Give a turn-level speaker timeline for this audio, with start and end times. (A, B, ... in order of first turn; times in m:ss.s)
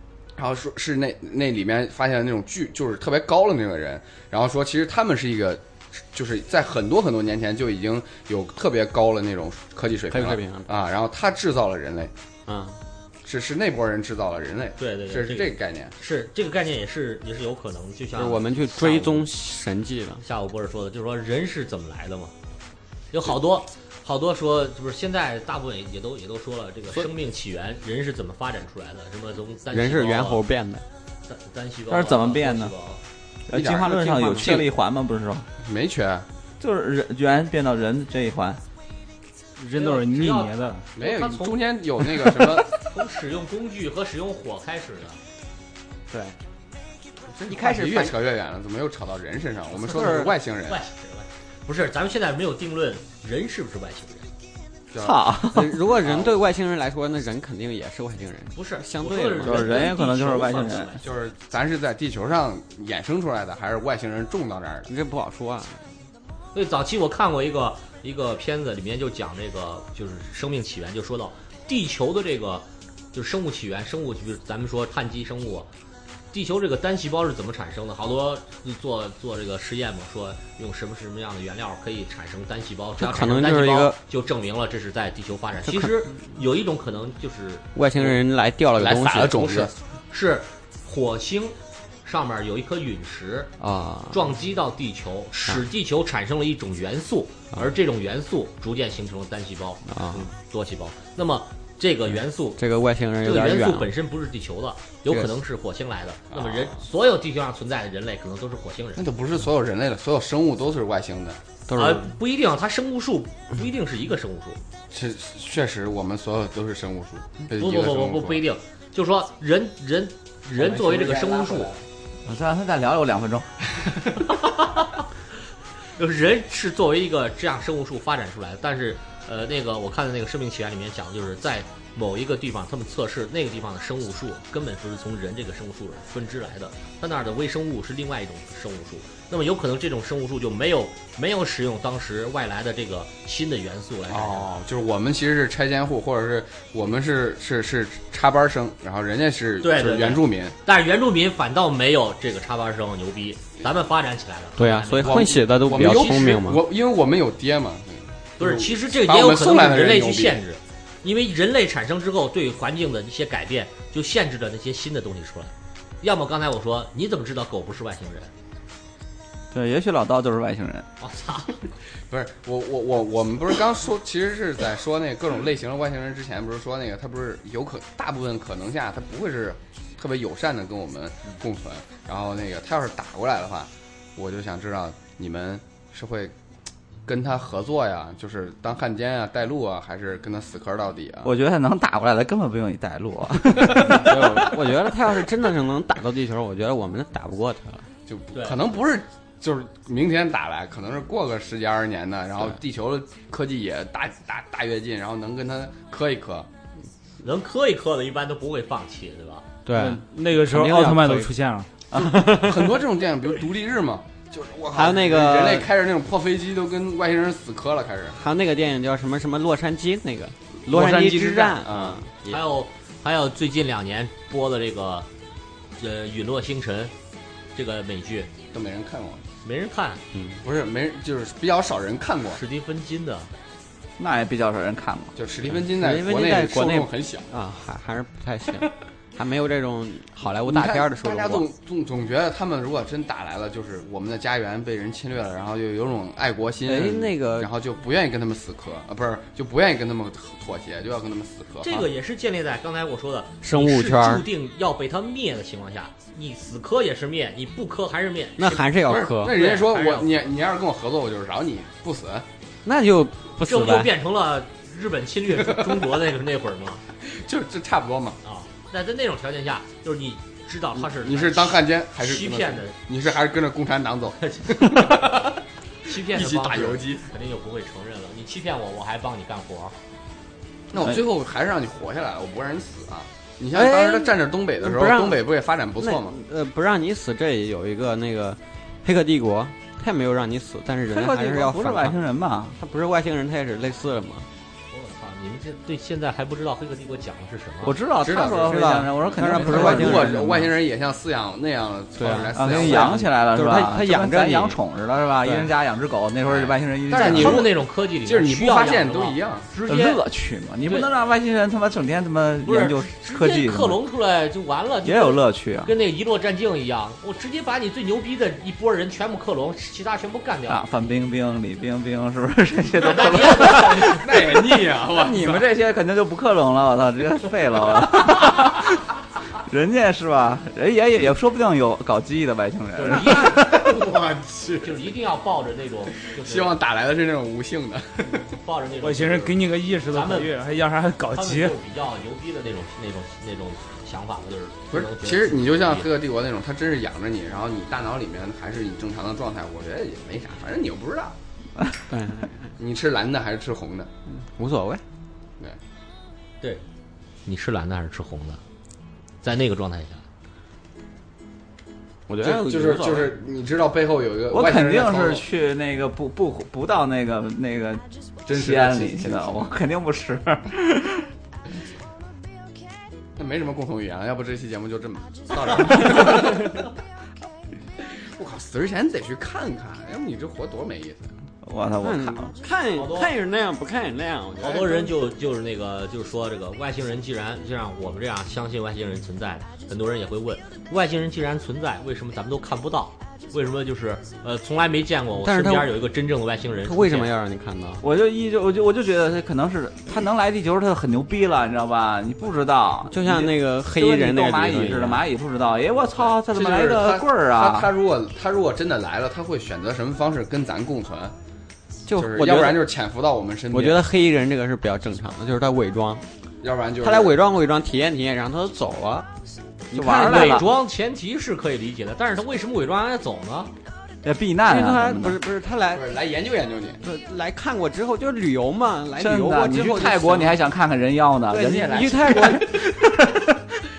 0:00.4-0:12.1 A
0:10.1-0:10.7 B
0:12.5-0:12.8 B
0:13.2-0:15.9 A
0:14.8-0:19.3 C
0:18.2-0:20.2 B
0:20.2-0:22.3 C
0:23.1-0:30.4 C
0:29.7-0:30.8 B
0:31.3-0:33.0 C
0:31.9-0:32.7 D
0:33.5-0:35.5 D
0:33.5-0:34.7 A
0:33.8-0:34.6 B
0:35.6-0:36.3 A
0:36.6-0:38.6 D
0:39.6-0:40.9 E
0:39.8-0:41.6 C
0:41.0-0:42.8 A
0:42.7-0:45.2 C
0:46.1-0:46.4 B
0:47.3-0:50.8 A
0:47.5-0:48.2 B
0:49.8-0:50.4 B
0:50.7-0:54.3 C
0:54.9-0:55.2 A
0:55.0-0:55.8 D
0:55.5-0:59.8 B
0:56.0-0:56.4 A
0:58.5-1:01.1 C
0:59.4-1:01.0 D
1:01.0-1:04.9 A
1:04.9-1:05.9 B
1:06.5-1:15.7 C
1:16.3-1:28.1 C
1:23.0-1:24.0 B
1:25.6-1:26.1 B
1:27.8-1:29.7 B
1:28.8-1:29.7 A
1:30.1-1:33.5 C
1:33.6-1:34.3 B
1:34.1-1:42.6 C
1:39.9-1:40.3 B
1:42.6-1:43.9 B
1:43.2-1:49.1 C
1:46.3-1:46.8 A
1:49.0-1:51.4 A
1:51.7-1:52.1 B
1:51.8-1:54.6 C
1:54.9-1:58.4 A
1:57.5-2:01.7 C
2:00.6-2:01.8 A
2:02.2-2:03.6 D
2:04.4-2:05.1 C
2:06.0-2:24.5 C
2:24.1-2:30.6 A
2:29.6-2:36.4 C
2:34.6-2:36.6 B
2:35.0-2:40.4 A
2:38.4-2:48.3 C
2:49.5-2:50.9 D
2:51.0-2:51.6 C
2:52.1-3:06.3 A
3:07.1-3:11.3 A
3:11.2-3:14.5 D
3:13.7-3:14.4 A
3:13.7-3:17.9 B
3:18.1-3:26.5 A
3:18.3-3:18.6 C
3:27.2-3:29.5 C
3:29.7-3:31.3 B
3:29.7-3:31.7 E
3:31.9-3:32.8 B
3:31.9-3:38.2 A
3:34.7-3:35.7 B
3:38.2-3:42.4 B
3:40.7-3:42.0 A
3:40.8-3:41.3 D
3:42.2-3:45.1 C
3:45.8-3:46.9 C
3:47.6-3:48.3 C
3:48.5-3:49.2 A
3:49.4-3:50.0 C
3:50.1-3:50.4 B
3:50.4-3:52.4 A
3:52.3-3:53.3 C
3:54.0-3:55.1 D
3:55.2-3:57.3 A
3:55.5-4:01.4 B
4:00.4-4:11.9 A
4:06.7-4:07.5 B
4:11.6-4:20.1 C
4:13.4-4:14.3 B
4:18.4-4:19.4 B
4:18.9-4:22.3 A
4:22.6-4:23.9 B
4:23.4-4:26.8 C
4:25.4-4:25.8 A
4:27.0-4:28.2 A
4:28.2-4:32.8 C
4:30.8-4:35.4 A
4:34.2-4:35.2 C
4:35.8-4:39.8 C
4:35.9-4:37.1 A
4:40.7-4:46.2 A
4:43.5-4:45.3 B
4:45.8-4:52.0 B
4:50.9-4:52.6 D
4:52.6-4:54.3 B
4:54.7-4:57.8 C
4:57.6-5:00.5 D
4:58.0-5:03.1 A
4:58.2-5:00.4 B
5:02.0-5:04.6 B
5:02.3-5:07.5 D
5:05.2-5:05.5 B
5:06.3-5:09.5 A
5:06.9-5:10.0 C
5:09.7-5:13.8 D
5:10.6-5:10.9 C
5:12.4-5:20.6 C
5:14.8-5:15.7 D
5:20.5-5:33.4 D
5:22.8-5:24.1 C
5:23.5-5:25.5 A
5:32.8-5:33.5 C
5:33.0-5:34.8 A
5:34.6-5:36.6 C
5:36.1-5:38.3 A
5:38.1-5:40.3 C
5:38.8-5:41.6 E
5:41.1-5:45.9 C
5:44.7-5:51.2 A
5:51.9-5:52.5 B
5:52.6-5:53.9 A
5:54.1-5:54.8 B
5:57.3-5:58.4 C
5:59.2-6:00.0 C
6:02.1-6:03.2 B
6:02.2-6:05.2 A
6:04.3-6:11.1 D
6:08.3-6:09.5 A
6:13.2-6:16.6 A
6:17.8-6:21.1 A
6:21.4-6:22.3 D
6:21.8-6:24.9 B
6:22.8-6:23.1 C
6:24.4-6:37.1 C
6:35.2-6:35.8 B
6:36.6-6:37.8 B
6:37.8-6:47.7 D
6:42.9-6:45.1 B
6:46.2-6:51.2 A
6:51.9-6:52.7 B
6:52.0-6:53.8 A
6:53.5-6:56.0 B
6:56.4-6:57.2 A
6:56.8-6:59.1 B
6:59.7-7:00.4 B
6:59.7-7:00.5 D
6:59.8-7:03.5 C
7:04.0-7:05.2 D
7:04.4-7:05.9 B
7:05.7-7:06.8 A
7:06.8-7:10.4 B
7:09.0-7:13.6 D
7:11.3-7:12.6 B